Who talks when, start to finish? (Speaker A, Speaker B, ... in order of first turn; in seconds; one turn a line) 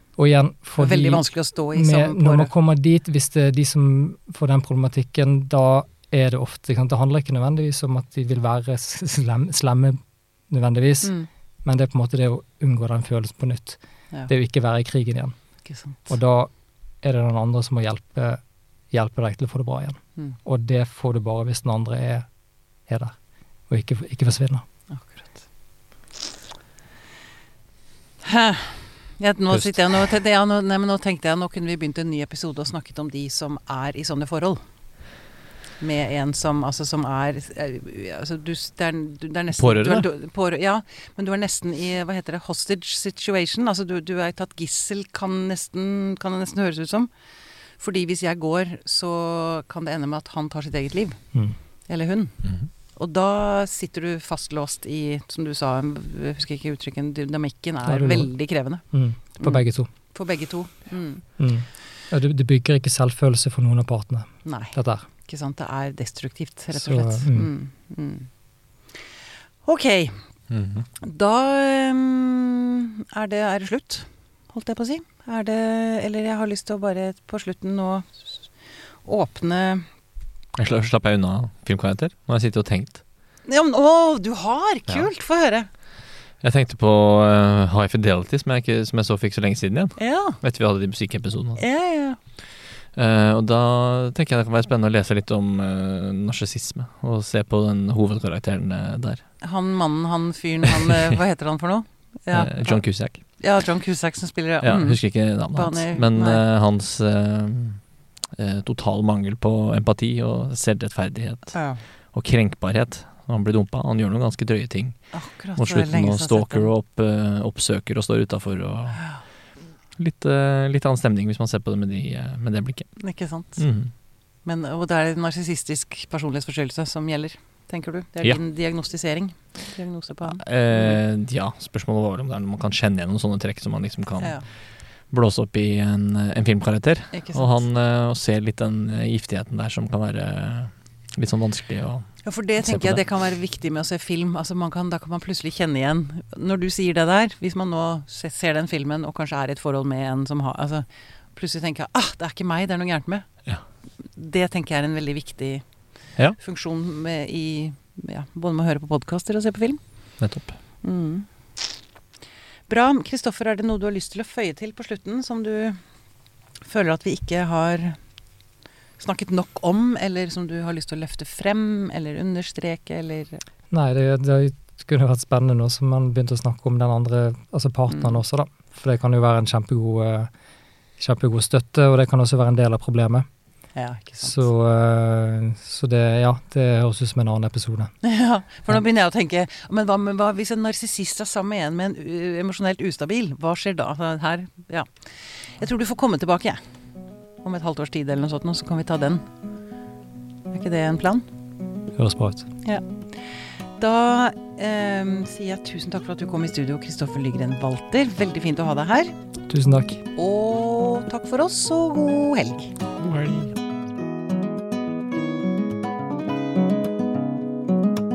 Speaker A: 0.2-11.1
Speaker B: 0.8-2.5
Speaker B: 11.0-11.3
Speaker A: 11.6-15.3
Speaker B: 15.6-16.1
Speaker A: 16.1-16.5
Speaker A: 17.0-22.3
Speaker A: 22.9-23.1
Speaker A: 23.7-24.6
Speaker B: 24.9-25.4
Speaker B: 28.2-34.6
Speaker B: 35.8-47.1
Speaker C: 39.5-40.1
Speaker B: 47.8-51.2
Speaker B: 51.9-52.4
Speaker B: 53.0-58.8
Speaker A: 57.9-58.3
Speaker A: 58.9-59.9
Speaker B: 59.4-61.2
Speaker A: 61.4-65.0
Speaker B: 64.4-68.3
Speaker A: 66.7-67.5
Speaker B: 69.6-70.2
Speaker C: 70.5-70.8
Speaker B: 71.0-78.4
Speaker B: 79.0-79.8
Speaker C: 80.6-83.0
Speaker B: 83.5-85.7
Speaker C: 86.4-91.6
Speaker B: 90.0-90.4
Speaker B: 91.6-92.2
Speaker C: 92.9-99.2
Speaker B: 99.4-106.4
Speaker C: 102.3-103.2
Speaker C: 104.6-107.8
Speaker C: 108.3-119.0
Speaker B: 111.5-111.8
Speaker B: 115.1-116.7
Speaker B: 119.0-119.2
Speaker C: 120.0-122.9
Speaker B: 123.0-123.6
Speaker C: 123.6-123.9
Speaker B: 124.4-131.0
Speaker C: 130.3-134.4
Speaker C: 135.1-142.1
Speaker B: 137.1-137.6
Speaker B: 142.2-153.2
Speaker C: 142.6-143.0
Speaker B: 154.1-155.6
Speaker B: 156.4-159.8
Speaker C: 160.2-160.6
Speaker B: 160.8-161.3
Speaker B: 162.7-165.8
Speaker B: 166.6-168.0
Speaker B: 169.0-173.4
Speaker A: 173.7-180.3
Speaker B: 177.9-178.2
Speaker A: 181.0-183.2
Speaker B: 183.8-184.4
Speaker A: 184.2-187.9
Speaker B: 188.0-194.9
Speaker B: 195.5-196.6
Speaker B: 197.4-199.2
Speaker B: 200.5-201.2
Speaker A: 201.9-202.5
Speaker B: 203.8-209.1
Speaker A: 209.5-210.0
Speaker B: 210.2-212.8
Speaker C: 213.0-213.5